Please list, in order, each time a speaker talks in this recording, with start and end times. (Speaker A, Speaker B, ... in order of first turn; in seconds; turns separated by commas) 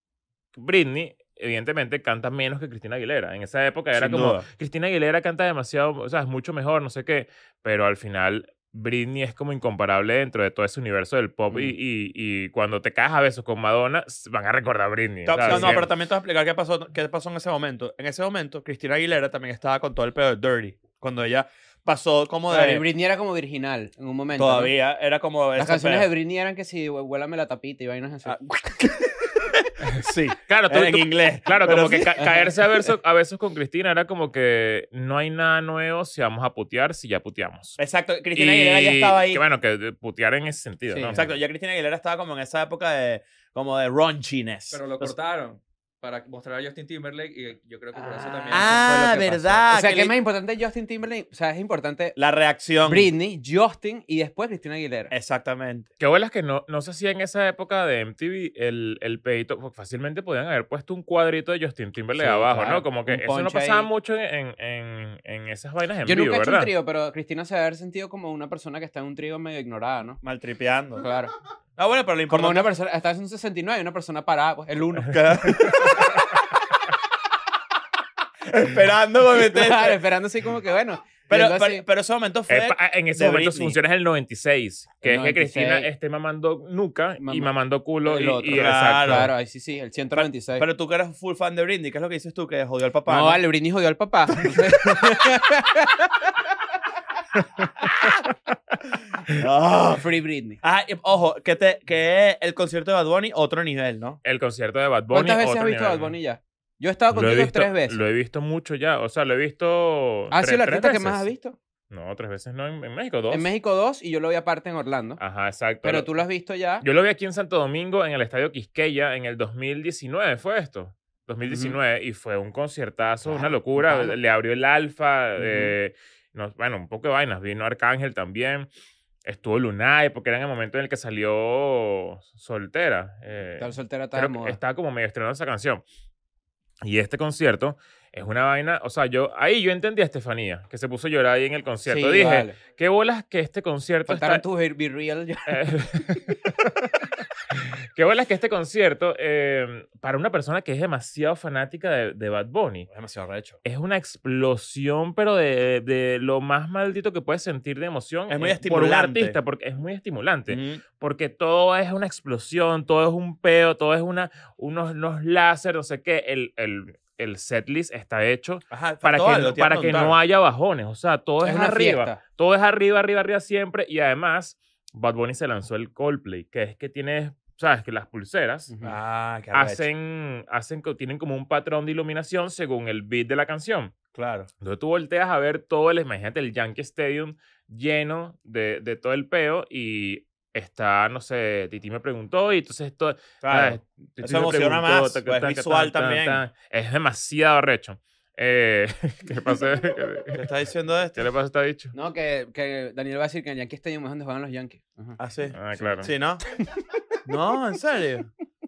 Speaker A: 0.6-15.9, Speaker B: 3.9-4.5, Speaker B: 15.2-22.8, Speaker C: 15.4-15.8, Speaker C: 22.5-24.8, Speaker B: 24.4-26.1, Speaker C: 25.6-28.4, Speaker B: 28.2-32.4, Speaker A: 30.4-37.8, Speaker B: 37.8-39.4, Speaker A: 38.3-41.2, Speaker C: 40.9-41.2, Speaker B: 41.1-45.1, Speaker D: 44.7-49.6, Speaker C: 47.9-52.2, Speaker B: 48.5-50.1, Speaker B: 52.1-53.1, Speaker C: 52.8-55.1, Speaker B: 55.1-55.9, Speaker A: 56.0-66.7, Speaker C: 62.1-63.9, Speaker C: 66.0-70.2, Speaker B: 70.2-71.1, Speaker C: 71.0-71.3, Speaker B: 71.8-72.7, Speaker C: 72.3-75.7, Speaker B: 75.1-76.2, Speaker B: 78.5-80.0, Speaker C: 79.3-81.8, Speaker B: 81.3-83.8, Speaker A: 82.5-89.3, Speaker C: 85.0-85.9, Speaker C: 87.2-87.5, Speaker C: 88.0-90.7, Speaker B: 88.5-89.3, Speaker B: 90.1-93.4, Speaker C: 93.1-96.3, Speaker B: 99.3-100.0, Speaker C: 99.9-100.6, Speaker B: 100.6-104.2, Speaker A: 104.2-106.1, Speaker C: 105.1-108.0, Speaker A: 107.1-111.2, Speaker C: 110.3-111.5, Speaker A: 111.9-113.5, Speaker C: 113.3-115.2, Speaker A: 115.2-116.1, Speaker C: 115.8-116.8, Speaker A: 116.8-128.7, Speaker C: 121.4-121.8, Speaker C: 123.2-124.2, Speaker C: 125.4-125.7, Speaker A: 129.2-135.8, Speaker C: 133.6-134.6, Speaker A: 136.8-144.4, Speaker C: 141.8-142.6, Speaker C: 144.1-146.0, Speaker A: 145.5-146.9, Speaker A: 147.5-152.9, Speaker B: 152.9-153.6, Speaker A: 153.6-178.7, Speaker B: 158.3-159.4, Speaker B: 160.5-160.8, Speaker B: 168.7-170.2, Speaker C: 171.4-172.2, Speaker C: 178.7-179.0, Speaker B: 178.8-179.9, Speaker A: 179.5-183.9, Speaker B: 184.1-184.5, Speaker A: 184.6-200.4, Speaker B: 193.4-196.4, Speaker B: 200.3-201.2, Speaker A: 201.1-201.9, Speaker C: 201.9-205.2, Speaker B: 205.2-206.4, Speaker A: 205.5-206.1, Speaker C: 206.5-206.8, Speaker B: 207.2-208.3